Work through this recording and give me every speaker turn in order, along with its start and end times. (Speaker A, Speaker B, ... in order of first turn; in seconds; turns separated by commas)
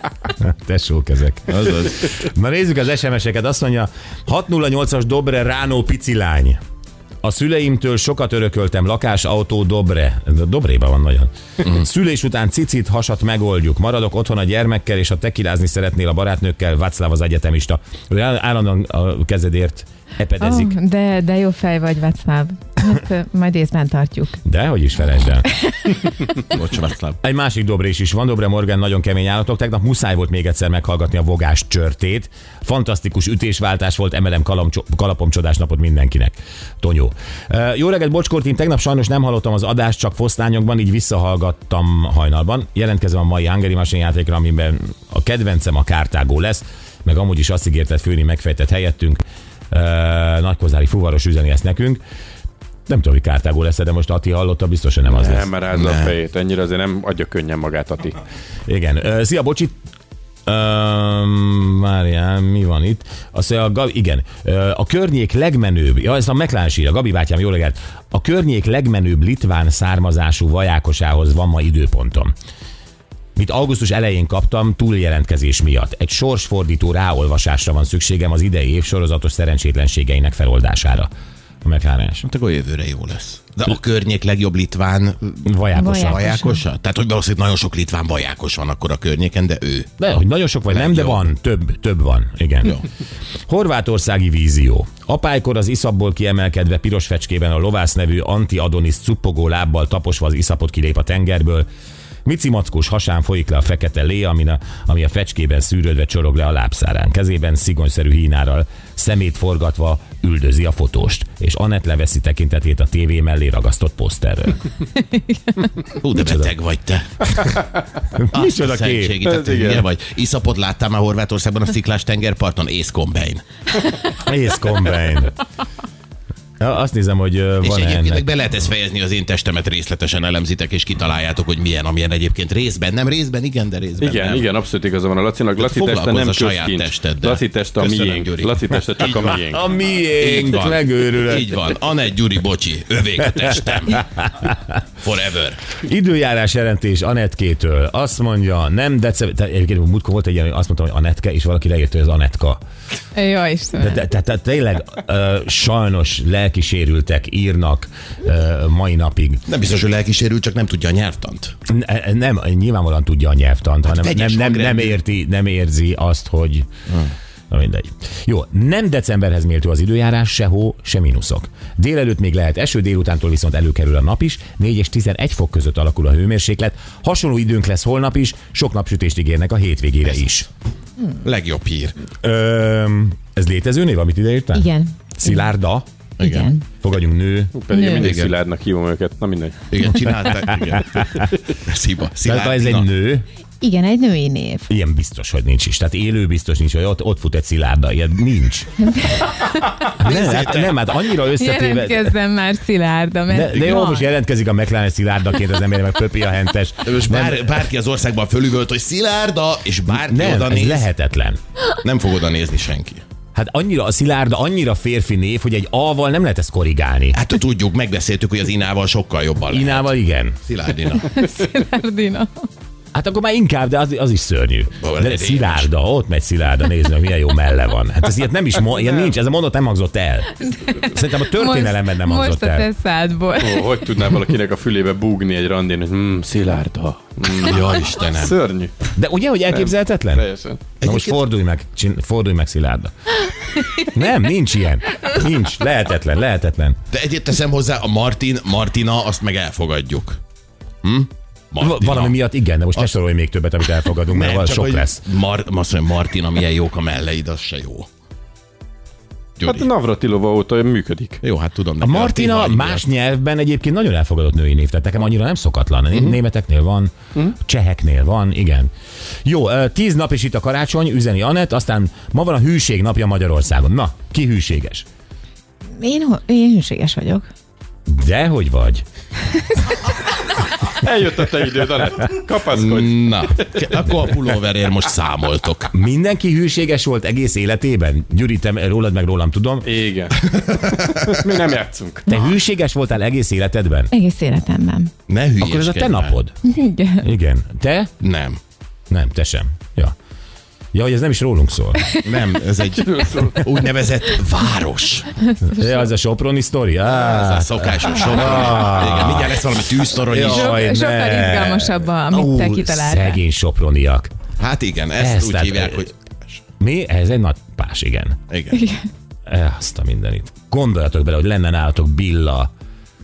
Speaker A: 0.4-6.6, Speaker B: 1.5-2.0, Speaker A: 7.2-20.8, Speaker C: 20.4-24.4, Speaker A: 24.4-25.5, Speaker B: 26.4-27.2, Speaker A: 27.2-52.0, Speaker A: 52.9-55.5, Speaker D: 55.1-58.2, Speaker B: 55.7-56.1, Speaker A: 58.7-59.7, Speaker A: 60.5-72.3, Speaker A: 73.3-81.1, Speaker A: 81.6-82.2, Speaker B: 82.2-89.9, Speaker A: 85.4-86.3, Speaker C: 85.7-86.6, Speaker A: 90.0-92.8, Speaker B: 90.7-91.3, Speaker A: 93.5-101.7, Speaker A: 102.2-114.6, Speaker B: 116.0-117.6, Speaker A: 116.2-116.5, Speaker A: 118.1-119.2, Speaker B: 118.3-123.4, Speaker D: 119.2-119.9, Speaker A: 124.1-125.4, Speaker A: 126.6-128.2, Speaker B: 127.6-134.5, Speaker D: 134.0-139.7, Speaker B: 135.6-139.4, Speaker A: 139.4-141.6, Speaker B: 140.2-144.3, Speaker B: 145.0-145.7, Speaker A: 145.8-152.6, Speaker C: 153.1-154.0, Speaker A: 153.8-159.4, Speaker B: 159.5-161.5, Speaker A: 161.7-166.7, Speaker B: 163.9-165.0, Speaker A: 167.5-180.5, Speaker B: 181.2-182.0, Speaker A: 182.2-185.8, Speaker C: 184.5-185.5, Speaker B: 186.2-186.5, Speaker C: 186.2-186.7, Speaker A: 186.8-187.5, Speaker D: 187.5-189.7, Speaker C: 187.7-188.1, Speaker B: 187.9-188.3, Speaker B: 189.7-192.9, Speaker A: 192.2-193.2, Speaker C: 193.6-194.7, Speaker A: 194.7-198.7, Speaker C: 198.9-199.7, Speaker B: 199.9-200.7, Speaker A: 200.0-202.1, Speaker C: 201.3-204.1, Speaker A: 203.3-207.4, Speaker B: 206.8-210.9, Speaker A: 209.8-211.4, Speaker B: 211.8-213.0, Speaker A: 213.3-217.2, Speaker B: 217.1-219.9, Speaker A: 219.5-220.4, Speaker B: 220.4-221.2, Speaker C: 221.0-222.4, Speaker A: 222.9-232.7, Speaker B: 224.8-225.7, Speaker D: 228.7-229.1, Speaker C: 230.4-233.8, Speaker D: 233.4-238.7, Speaker B: 237.2-238.3, Speaker A: 238.9-240.2, Speaker D: 239.5-240.6, Speaker B: 240.8-241.2, Speaker A: 240.8-243.1, Speaker A: 243.7-246.8, Speaker B: 246.9-250.2, Speaker B: 250.8-252.2, Speaker A: 251.6-255.0, Speaker B: 254.1-257.9, Speaker B: 259.4-259.7, Speaker D: 259.4-261.2, Speaker B: 261.2-262.9, Speaker A: 261.8-268.7, Speaker B: 265.9-266.2, Speaker A: 269.2-274.8, Speaker C: 275.8-277.2, Speaker A: 277.9-278.8, Speaker D: 280.6-283.6, Speaker B: 282.5-285.7, Speaker A: 285.7-289.7, Speaker D: 289.6-290.2, Speaker B: 290.3-290.9, Speaker D: 290.8-292.1, Speaker A: 292.1-293.9, Speaker C: 293.9-294.9, Speaker B: 295.1-296.1, Speaker A: 295.4-296.3, Speaker C: 296.4-297.1, Speaker A: 297.0-297.9, Speaker B: 298.0-298.4, Speaker A: 298.9-299.9, Speaker A: 300.7-301.9, Speaker B: 302.0-305.1, Speaker D: 302.8-303.4, Speaker A: 305.4-314.1, Speaker B: 307.0-310.7, Speaker C: 310.1-313.2, Speaker B: 314.4-316.4, Speaker A: 315.0-315.9, Speaker A: 316.6-318.2, Speaker B: 318.3-318.6, Speaker C: 318.5-318.9, Speaker A: 319.3-322.5